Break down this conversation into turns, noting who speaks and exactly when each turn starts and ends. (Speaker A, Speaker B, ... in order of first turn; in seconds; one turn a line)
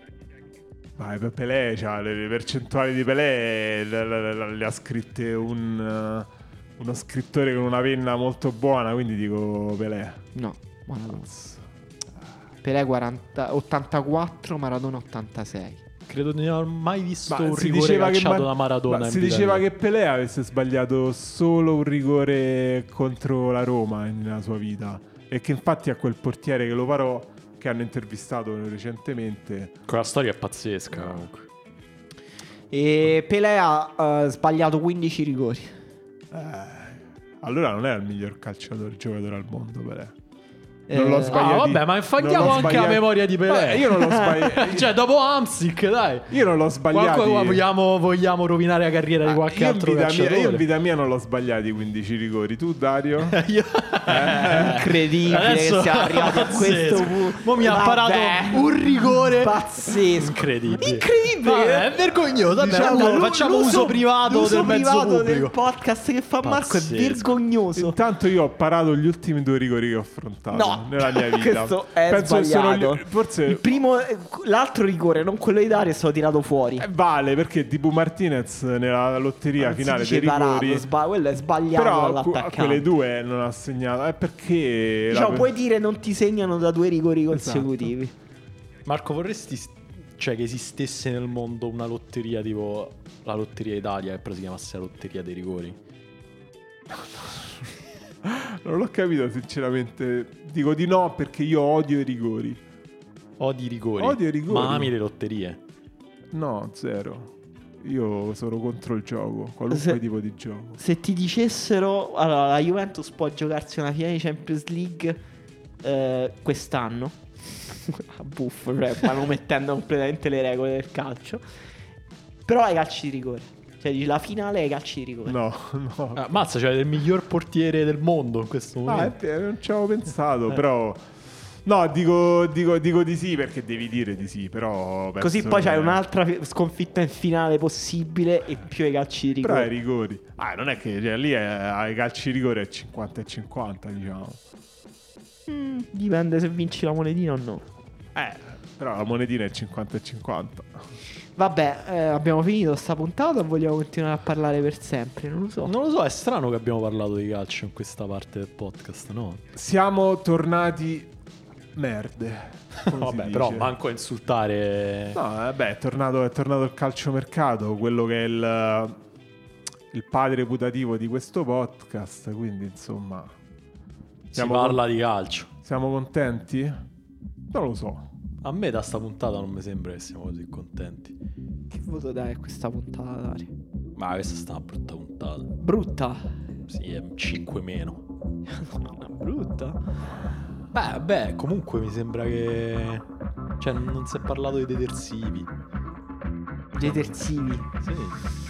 Speaker A: 1.0-10.2
Speaker B: 10.3-11.3
Speaker A: 11.2-11.6
Speaker B: 12.6-15.8
Speaker C: 16.1-19.6
Speaker A: 17.3-29.8
Speaker C: 29.9-31.5
Speaker A: 30.9-31.2
Speaker B: 32.7-35.8
Speaker A: 36.3-40.1
Speaker B: 40.9-41.4
Speaker A: 40.9-45.0
Speaker C: 41.3-46.4
Speaker A: 46.3-47.6
Speaker C: 46.9-50.6
Speaker A: 49.3-53.4
Speaker C: 53.3-65.5
Speaker A: 54.1-54.8
Speaker B: 54.5-62.0
Speaker B: 62.5-68.0
Speaker C: 66.4-67.3
Speaker A: 67.7-73.8
Speaker B: 70.5-76.8
Speaker A: 76.8-80.9
Speaker B: 79.6-82.8
Speaker A: 81.7-85.5
Speaker B: 85.1-88.1
Speaker A: 87.3-87.9
Speaker C: 88.8-95.8
Speaker A: 96.9-97.7
Speaker A: 98.2-102.6
Speaker C: 103.4-105.6
Speaker A: 104.0-104.9
Speaker A: 106.3-110.8
Speaker B: 109.7-110.0
Speaker B: 110.8-115.2
Speaker B: 115.8-121.4
Speaker B: 122.5-125.4
Speaker A: 125.3-126.2
Speaker C: 126.1-129.1
Speaker A: 128.8-131.1
Speaker A: 131.6-136.0
Speaker B: 135.2-139.7
Speaker A: 139.4-144.4
Speaker B: 145.5-147.6
Speaker A: 148.1-150.7
Speaker B: 151.4-155.7
Speaker C: 155.6-159.4
Speaker A: 159.6-161.1
Speaker A: 161.7-163.7
Speaker C: 162.9-165.2
Speaker A: 165.1-169.0
Speaker A: 169.9-173.3
Speaker C: 174.3-175.5
Speaker A: 174.3-174.8
Speaker A: 175.6-176.8
Speaker A: 177.5-178.1
Speaker C: 178.4-181.1
Speaker B: 181.7-183.5
Speaker C: 183.9-185.5
Speaker B: 185.6-186.3
Speaker C: 186.7-188.0
Speaker B: 188.5-189.8
Speaker C: 190.7-193.1
Speaker C: 193.6-195.5
Speaker B: 196.7-197.7
Speaker C: 196.8-197.1
Speaker C: 197.7-198.2